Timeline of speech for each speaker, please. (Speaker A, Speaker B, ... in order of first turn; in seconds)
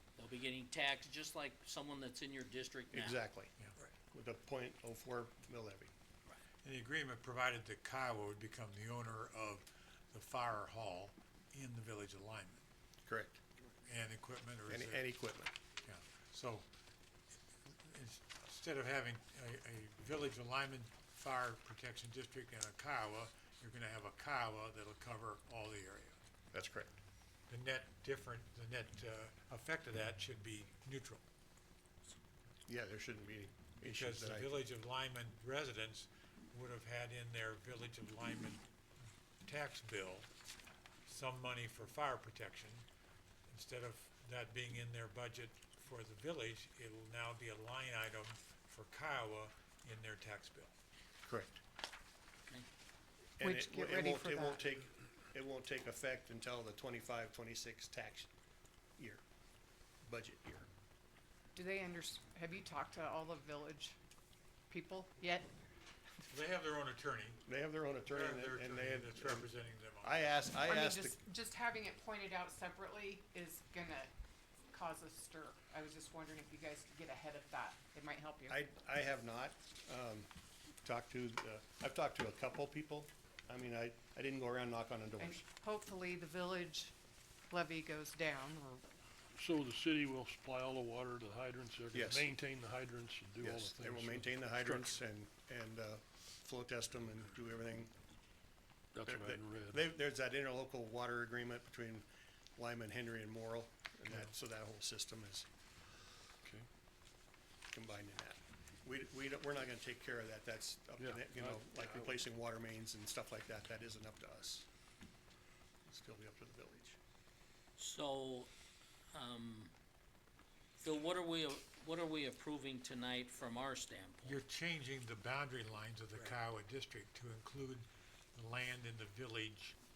Speaker A: 0.2-3.2, 117.8-118.5, 119.1-119.7, 120.8-124.4
Speaker B: 2.9-3.5, 4.1-5.9, 13.1-13.4, 14.7-15.5, 26.5-26.9, 32.7-34.5, 51.2-51.6, 53.4-58.3, 60.0-60.7, 67.5-69.5, 70.0-71.2, 78.5-80.3, 80.8-85.4, 91.9-92.3, 93.4-97.9, 99.1-102.1, 102.6-105.5, 107.7-114.7, 115.9-117.0
Speaker C: 6.6-12.6, 13.8-15.0, 15.8-16.7, 17.6-26.2, 27.5-31.2, 33.9-38.6, 39.4-40.3, 41.0-42.8, 43.5-50.7, 66.3-67.4, 68.1-70.3, 124.2-129.8
Speaker D: 53.4-54.6, 61.5-64.0, 64.7-65.5, 70.7-74.1, 74.7-78.6, 85.2-86.9, 87.5-88.8
Speaker E: 89.3-95.0, 98.9-99.8, 111.0-112.2